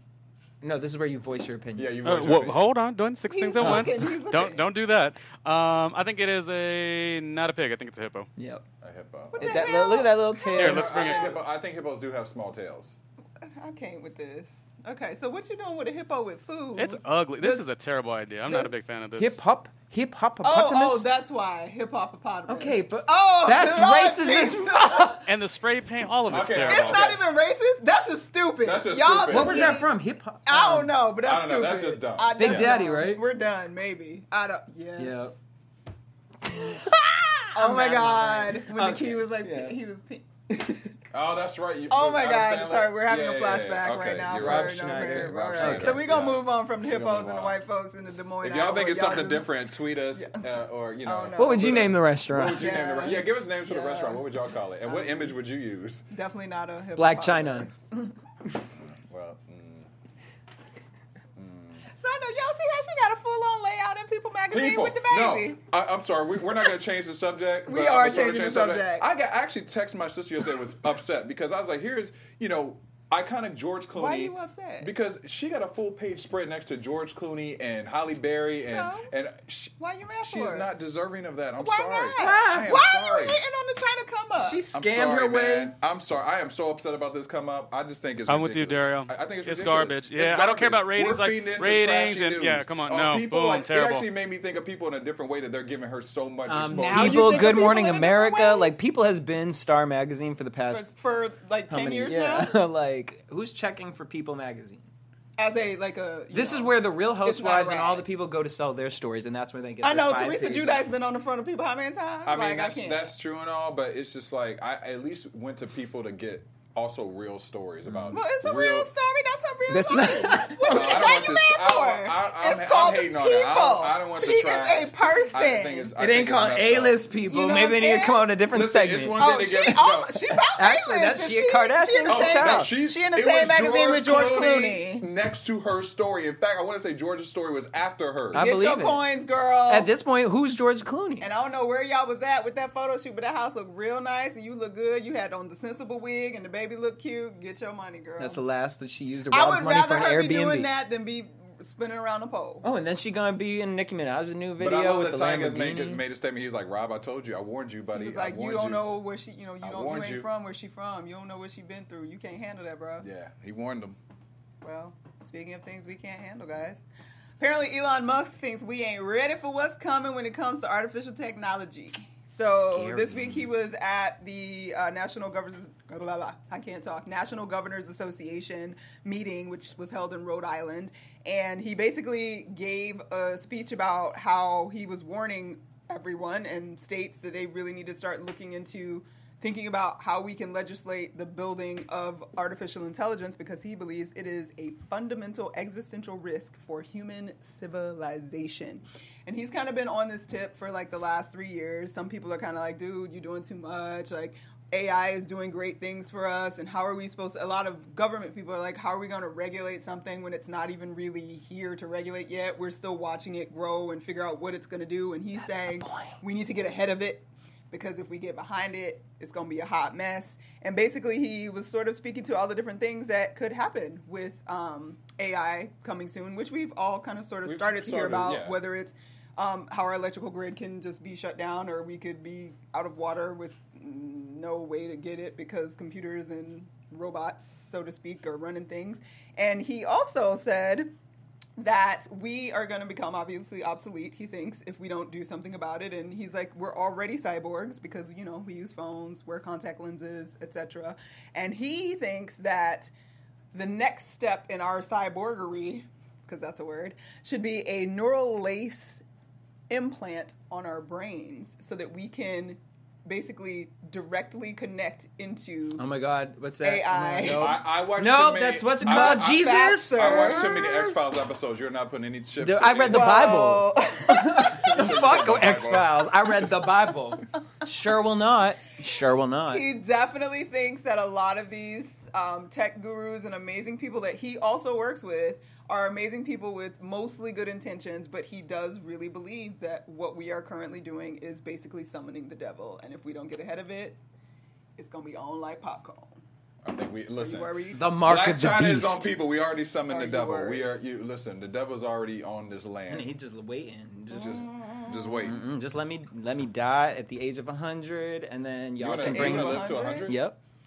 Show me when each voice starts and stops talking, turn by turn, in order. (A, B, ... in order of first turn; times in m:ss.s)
0:00.6-0:02.0 A
0:01.8-0:02.6 B
0:02.0-0:08.3 C
0:03.3-0:04.6 D
0:03.6-0:03.9 A
0:08.4-0:08.6 A
0:08.8-0:09.7 B
0:09.3-0:11.4 D
0:09.4-0:10.9 A
0:10.6-0:11.3 C
0:10.6-0:13.0 B
0:13.4-0:17.6 D
0:16.8-0:19.4 C
0:19.2-0:21.1 A
0:20.4-0:25.3 D
0:22.5-0:25.2 A
0:25.3-0:27.1 C
0:26.3-0:27.2 B
0:26.4-0:29.9 D
0:28.6-0:29.8 B
0:29.3-0:30.9 A
0:30.5-0:35.3 D
0:31.2-0:32.8 B
0:32.4-0:33.2 A
0:35.0-0:35.4 A
0:36.5-0:39.8 A
0:37.6-0:40.3 D
0:40.5-0:41.0 A
0:41.1-0:47.6 B
0:41.9-0:50.5 D
0:44.4-0:46.1 A
0:48.4-0:56.1 B
0:51.0-0:54.3 D
0:51.4-0:52.8 A
0:54.8-0:55.4 D
0:56.1-0:58.2 D
0:57.0-0:57.7 A
0:58.8-0:59.9 B
1:01.4-1:01.9 B
1:01.9-1:05.6 D
1:04.5-1:23.4 B
1:07.7-1:09.1 D
1:13.9-1:14.9 D
1:18.6-1:19.1 D
1:19.8-1:20.7 D
1:21.6-1:24.6 D
1:22.2-1:22.7 A
1:24.4-1:25.7 A
1:24.7-1:37.7 B
1:28.3-1:34.0 C
1:36.5-1:40.9 A
1:36.8-1:38.7 D
1:40.7-1:42.6 D
1:41.7-1:44.9 A
1:45.4-1:48.0 D
1:46.3-1:50.9 A
1:49.8-1:53.1 D
1:52.2-1:58.9 B
1:57.9-1:58.2 A
1:58.1-2:05.9 D
1:59.7-2:01.1 A
2:00.3-2:07.0 B
2:06.0-2:09.3 A
2:07.2-2:08.3 D
2:08.5-2:10.3 B
2:09.2-2:15.1 D
2:10.6-2:12.7 A
2:12.0-2:18.5 B
2:18.3-2:19.0 A
2:18.3-2:19.9 D
2:19.7-2:21.3 A
2:21.2-2:28.4 D
2:28.2-2:30.7 A
2:29.3-2:32.6 D
2:32.6-2:36.0 A
2:34.6-2:39.0 B
2:37.9-2:43.1 D
2:39.6-2:40.3 B
2:43.0-2:44.0 B
2:44.6-2:46.8 D
2:47.4-4:00.9 D
2:52.4-2:53.5 A
3:35.4-3:36.1 A
3:47.4-3:48.6 B
4:01.6-4:12.9 D
4:13.5-4:19.0 D
4:19.7-4:25.9 D
4:25.8-4:30.9 A
4:26.6-4:27.6 D
4:27.2-4:33.5 B
4:28.8-4:30.7 D
4:32.4-4:39.7 A
4:32.9-4:34.9 D
4:34.4-4:36.8 B
4:39.5-4:54.0 D
4:54.8-4:56.2 D
4:56.6-5:03.1 B
4:57.2-4:57.8 D
4:57.7-4:59.1 A
4:59.9-5:00.7 D
5:02.9-5:04.5 A
5:04.1-5:05.3 D
5:04.2-5:05.4 B
5:05.2-5:10.4 A
5:08.8-5:10.2 B
5:09.0-5:10.2 D